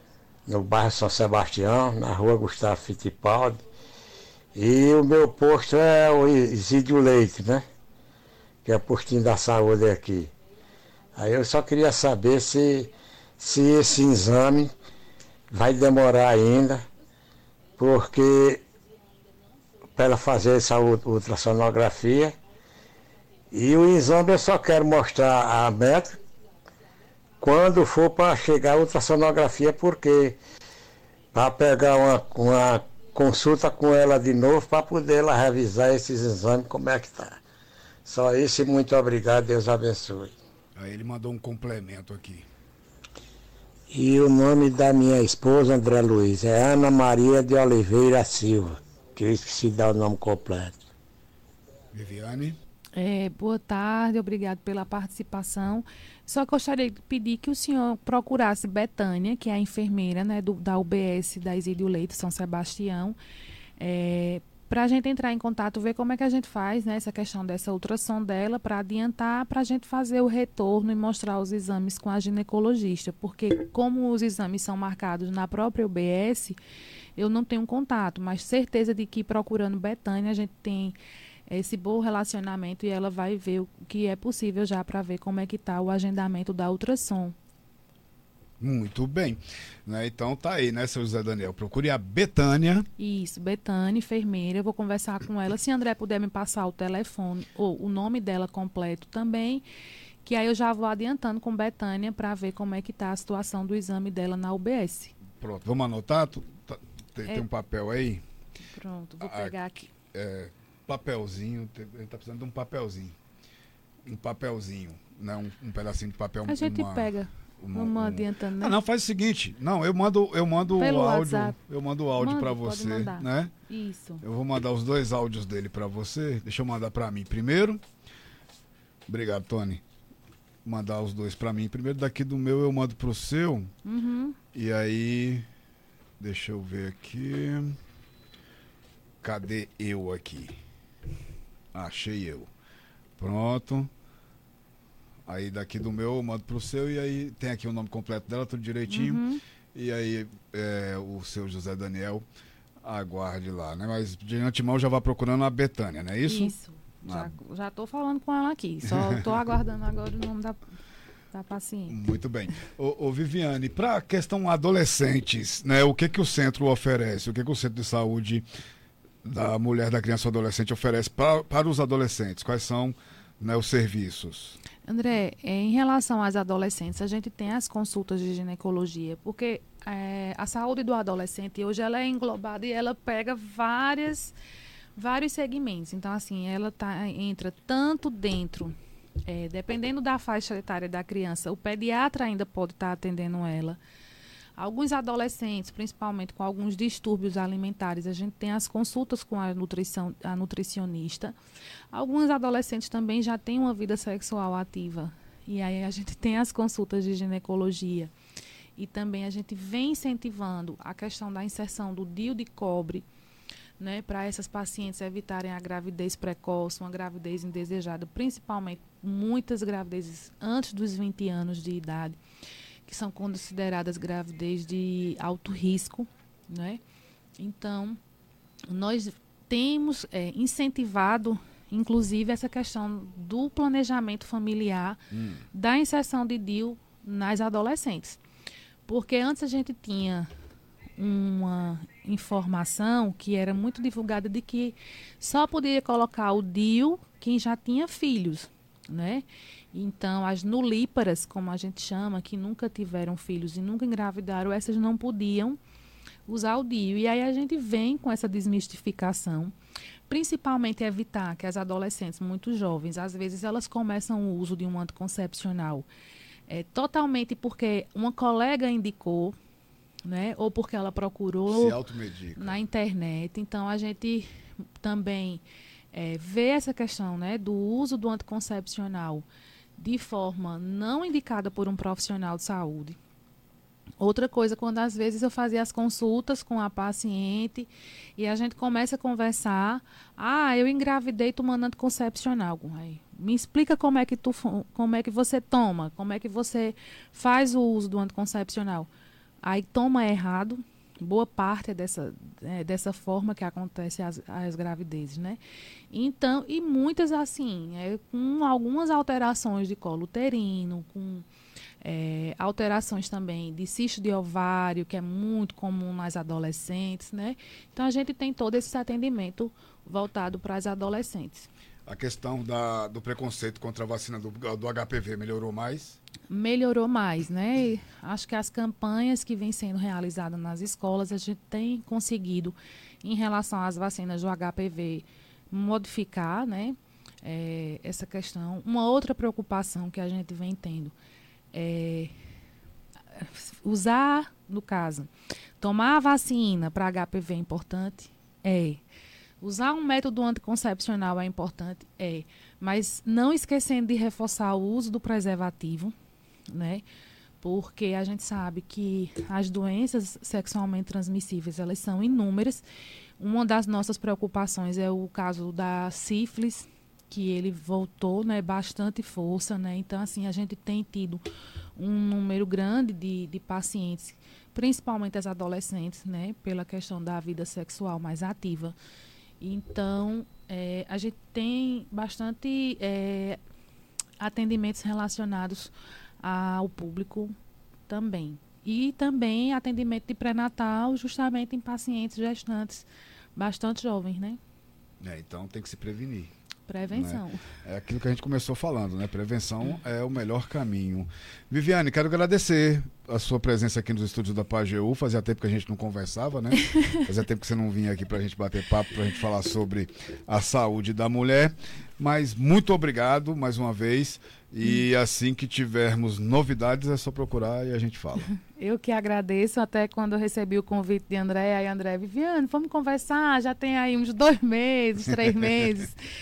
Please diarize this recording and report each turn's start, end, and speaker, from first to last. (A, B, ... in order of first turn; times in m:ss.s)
0:00.5-0:03.6 A
0:04.5-0:07.6 A
0:08.6-0:10.3 A
0:11.2-0:14.7 A
0:15.5-0:16.8 A
0:17.8-0:18.6 A
0:20.0-0:22.3 A
0:23.5-0:26.2 A
0:27.4-0:30.4 A
0:31.3-0:37.4 A
0:38.0-0:40.3 A
0:40.8-0:42.5 B
0:43.9-0:50.8 A
0:51.9-0:52.6 B
0:53.0-1:03.2 C
1:03.8-1:16.6 C
1:17.2-1:27.3 C
1:28.6-1:32.9 B
1:33.0-1:39.6 C
1:40.2-1:45.1 C
1:45.4-1:48.2 B
1:48.7-1:49.9 C
1:49.2-1:49.5 B
1:50.1-1:53.1 B
1:54.0-1:57.1 B
1:56.5-1:58.8 C
1:57.6-2:03.5 B
2:00.8-2:01.5 C
2:02.2-2:04.2 C
2:04.2-2:07.8 B
2:09.1-2:09.8 B
2:10.6-2:13.7 B
2:13.8-2:14.4 C
2:14.5-2:15.4 B
2:16.2-2:17.8 B
2:19.2-2:20.5 B
2:21.7-2:22.5 B
2:23.2-2:23.9 B
2:25.2-2:29.2 B
2:28.9-2:29.4 C
2:29.7-2:32.2 B
2:32.8-2:36.5 B
2:36.3-2:40.6 C
2:37.0-2:37.3 B
2:38.9-2:39.2 B
2:41.3-2:42.0 C
2:41.9-2:48.4 B
2:49.2-2:54.6 B
2:54.8-3:04.3 C
3:05.0-3:08.7 C
3:09.3-3:13.8 C
3:14.6-3:21.4 C
3:21.9-3:28.1 C
3:28.8-3:33.0 C
3:33.8-3:42.2 C
3:42.8-3:46.8 C
3:47.4-3:48.0 C
3:48.7-3:55.0 C
3:55.1-3:55.4 B
3:55.5-3:58.2 C
3:58.9-4:00.3 C
4:01.0-4:15.6 C
4:16.3-4:19.5 C
4:20.1-4:25.9 C
4:26.5-4:29.4 C
4:30.0-4:31.8 C
4:31.5-4:32.6 B
4:32.4-4:34.3 C
4:34.8-4:39.2 C
4:39.8-4:43.0 C
4:44.0-4:58.9 C
4:59.4-5:05.4 C
5:05.9-5:11.2 C
5:11.8-5:21.5 C
5:21.8-5:26.0 B
5:26.3-5:40.9 C
5:41.5-5:42.1 C
5:43.1-5:45.1 C
5:45.6-5:48.8 C
5:49.4-5:55.9 C
5:56.5-5:56.8 C
5:57.4-6:02.6 C
6:03.2-6:11.2 C
6:11.8-6:18.7 C
6:19.4-6:23.4 C
6:24.2-6:25.7 C
6:26.2-6:27.4 C
6:27.9-6:34.4 C
6:35.0-6:36.3 B
6:36.7-6:37.4 C
6:36.9-6:58.3 B
6:58.4-7:06.0 C
7:05.1-7:05.7 B